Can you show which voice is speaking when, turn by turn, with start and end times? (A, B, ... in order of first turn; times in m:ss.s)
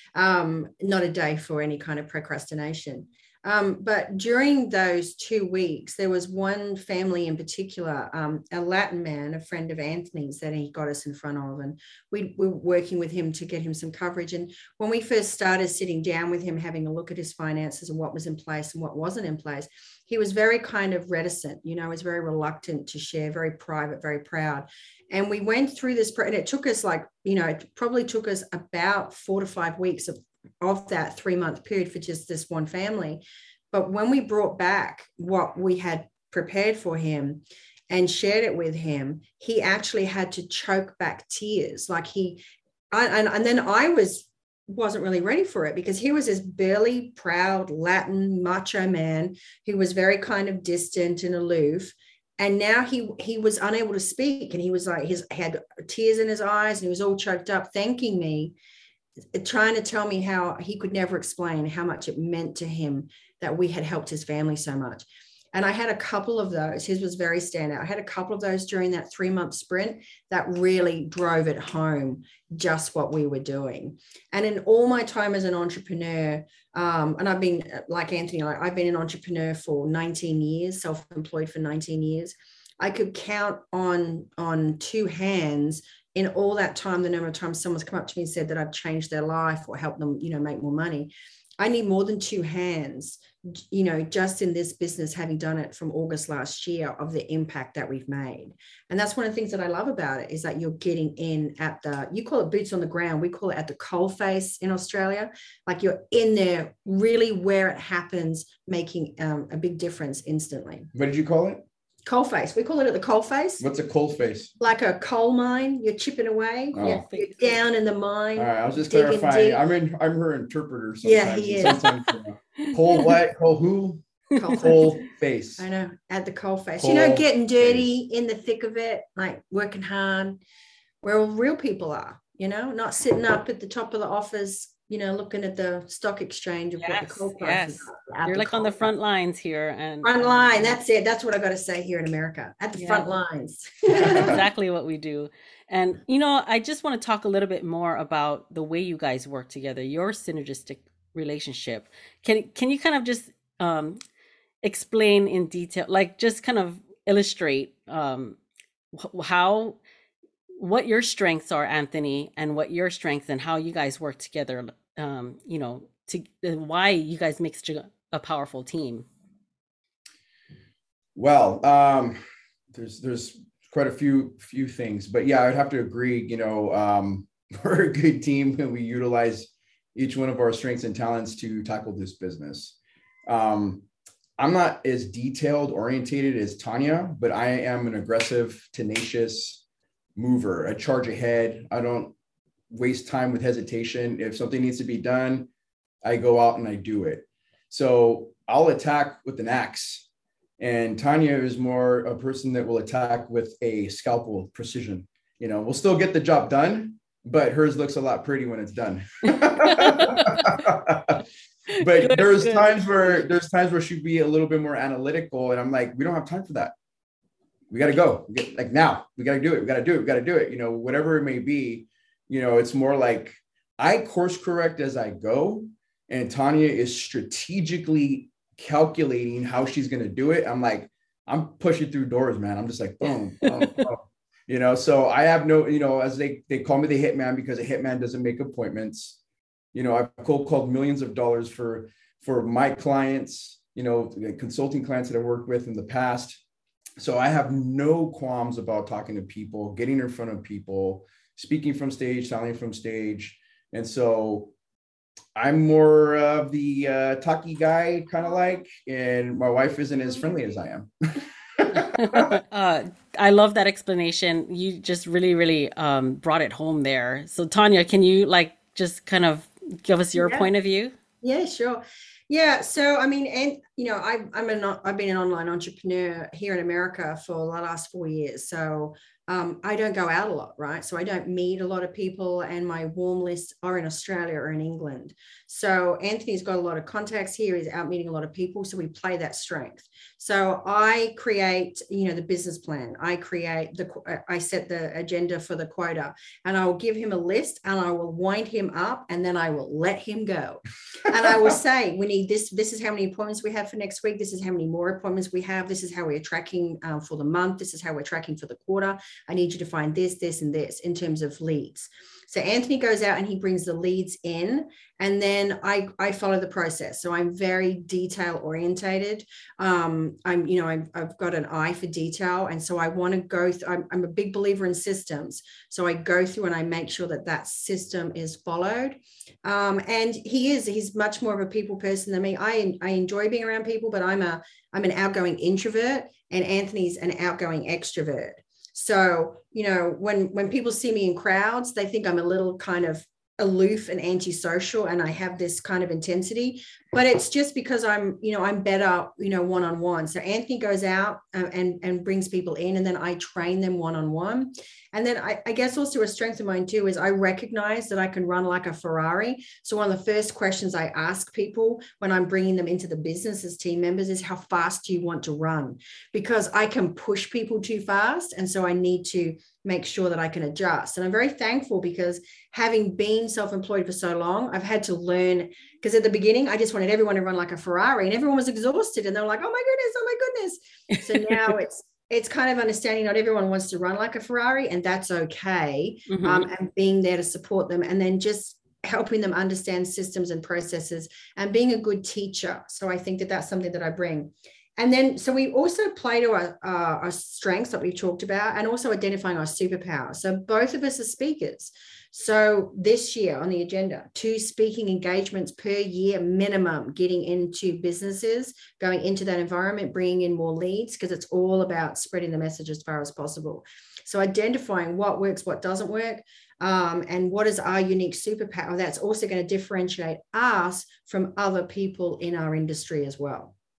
0:00.2-0:58.6 A
0:59.3-1:50.9 A
1:50.9-1:51.6 B
1:52.1-1:53.6 A
1:53.6-1:54.5 B
1:54.6-1:59.6 A
1:56.7-1:57.0 B
1:56.8-1:57.6 C
1:58.4-2:05.7 B
2:01.0-2:01.9 A
2:04.4-2:05.0 A
2:05.6-2:10.4 A
2:06.8-2:07.9 B
2:11.0-2:18.9 A
2:16.8-2:20.7 C
2:20.0-2:24.4 A
2:22.8-2:23.1 C
2:24.0-2:34.0 C
2:24.2-2:24.4 B
2:34.6-2:38.4 C
2:38.9-2:39.8 C
2:40.6-2:49.1 C
2:51.2-2:52.2 B
2:52.7-3:03.8 B
3:04.4-3:09.6 B
3:10.2-3:12.1 B
3:12.7-3:15.5 B
3:16.0-3:20.1 B
3:20.6-3:31.2 B
3:29.5-3:30.5 C
3:31.8-3:36.8 B
3:31.8-3:33.2 C
3:37.7-3:59.2 B
3:53.0-3:53.9 C
3:59.7-4:06.4 B
4:07.0-4:14.5 B
4:15.4-4:22.4 B
4:21.7-4:31.0 C
4:30.2-4:30.5 A
4:31.2-7:03.5 A
6:20.9-6:21.6 C
6:26.1-6:26.5 C